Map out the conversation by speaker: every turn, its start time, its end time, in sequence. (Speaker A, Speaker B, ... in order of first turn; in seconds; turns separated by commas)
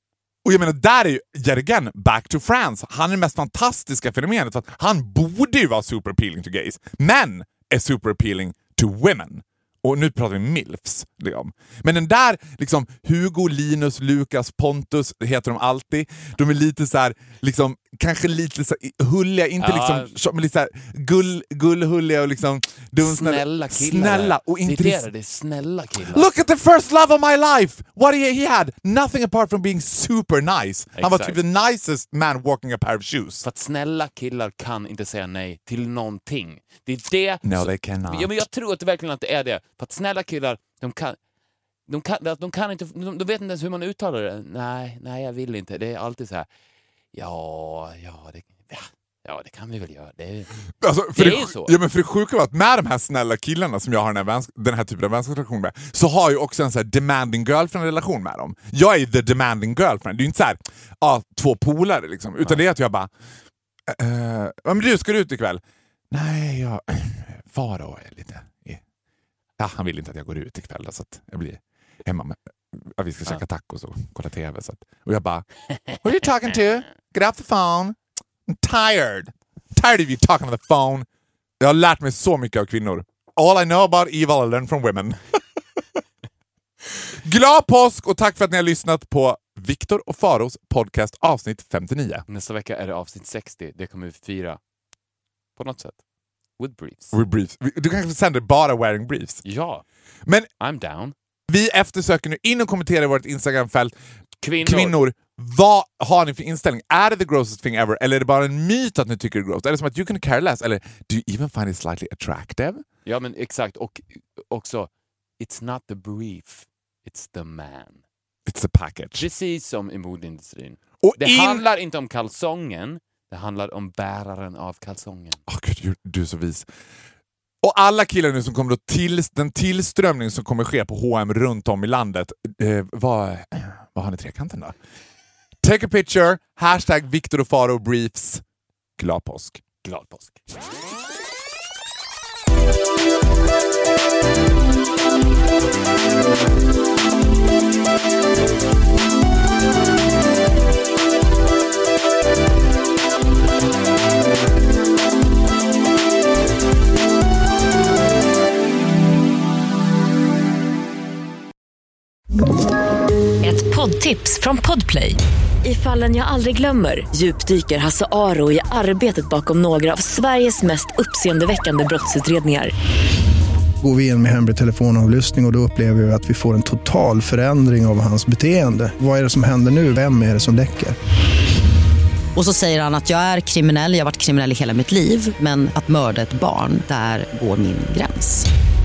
Speaker A: 0.4-25.1, Speaker B: 19.6-20.2, Speaker B: 23.0-26.3, Speaker A: 26.1-33.4, Speaker B: 30.9-31.4, Speaker B: 33.4-41.2, Speaker A: 37.4-38.4, Speaker B: 41.9-46.5, Speaker B: 47.1-50.5, Speaker A: 50.8-63.1, Speaker B: 51.1-51.8, Speaker A: 63.9-68.8, Speaker A: 69.6-78.0, Speaker A: 78.5-81.0, Speaker A: 81.6-85.4, Speaker A: 87.2-92.2, Speaker B: 92.3-94.6, Speaker B: 95.5-96.0, Speaker B: 96.6-97.1, Speaker A: 97.1-99.4, Speaker B: 99.4-99.8, Speaker B: 100.6-101.1, Speaker A: 101.5-103.9, Speaker B: 104.4-105.0, Speaker A: 104.6-112.8, Speaker B: 113.0-114.9, Speaker B: 115.4-118.0, Speaker A: 118.5-119.3, Speaker B: 119.2-125.4, Speaker A: 121.0-121.7, Speaker A: 125.5-126.7, Speaker A: 127.6-134.7, Speaker A: 135.6-138.4, Speaker A: 139.0-139.6, Speaker B: 139.8-140.4, Speaker C: 163.4-172.7, Speaker D: 173.8-181.0, Speaker E: 182.3-188.4